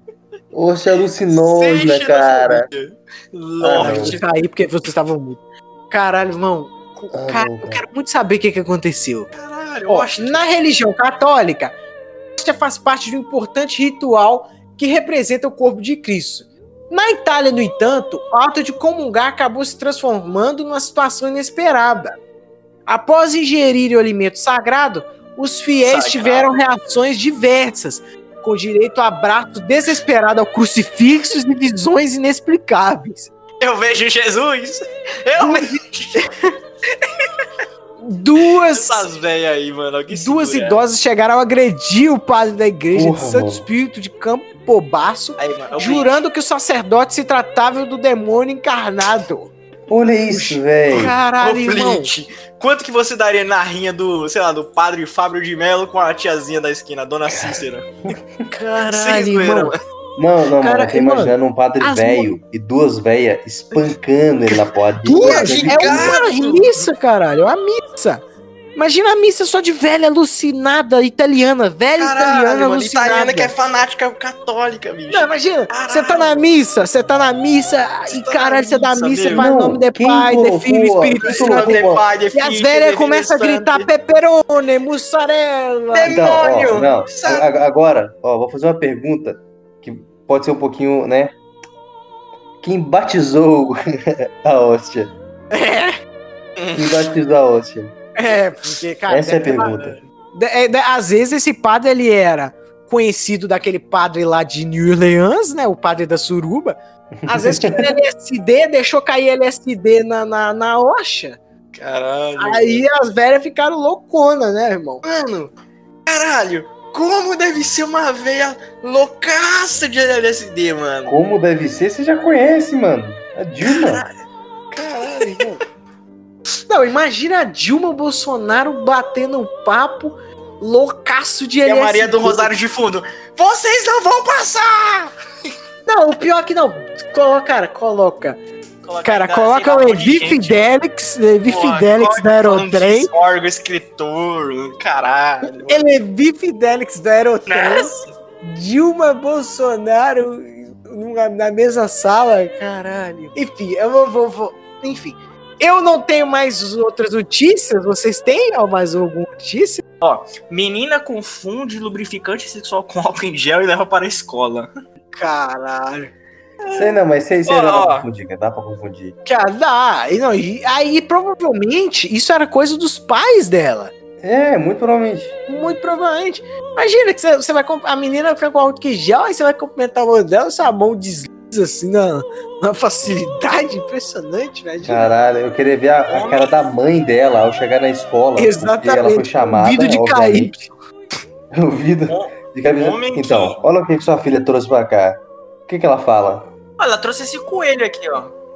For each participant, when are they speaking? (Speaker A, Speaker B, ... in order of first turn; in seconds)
Speaker A: 0.5-2.7, 3.6-4.2, 7.1-7.8, 42.9-43.6, 49.9-51.1, 57.3-58.2, 60.2-66.2, 79.3-82.0, 86.0-91.3, 92.6-95.1, 96.7-97.9, 99.1-100.0, 107.2-107.9, 121.0-124.0, 166.7-169.2, 174.2-175.4, 184.8-190.5, 191.5-196.5
Speaker B: 1.4-4.2, 9.3-10.5, 25.8-26.5, 33.6-36.3, 38.7-40.8, 45.4-46.2, 51.4-58.0, 58.9-59.8, 65.2-66.9, 72.0-76.5, 78.1-79.5, 81.2-83.9, 85.9-87.5, 96.6-97.1, 111.7-112.8, 115.0-115.5, 116.0-121.1, 123.7-124.1, 124.7-125.6, 131.6-135.5, 138.8-140.7, 141.4-145.9, 147.5-148.1, 160.0-164.7, 167.4-168.0, 186.1-186.6, 192.1-193.6, 196.8-198.3
Speaker C: 3.8-9.3, 9.9-11.7, 12.4-22.1, 22.9-33.3, 35.4-36.3, 38.0-39.1, 40.1-49.5, 50.3-52.1, 58.5-59.7, 60.6-62.4, 65.0-68.2, 68.7-73.5, 75.1-86.2, 95.5-96.0, 98.2-111.4, 112.4-115.0, 125.2-125.6, 126.7-132.5, 135.8-138.4, 139.0-143.1, 145.7-159.8, 165.1-166.1, 169.2-173.9, 175.5-185.1, 188.4-190.7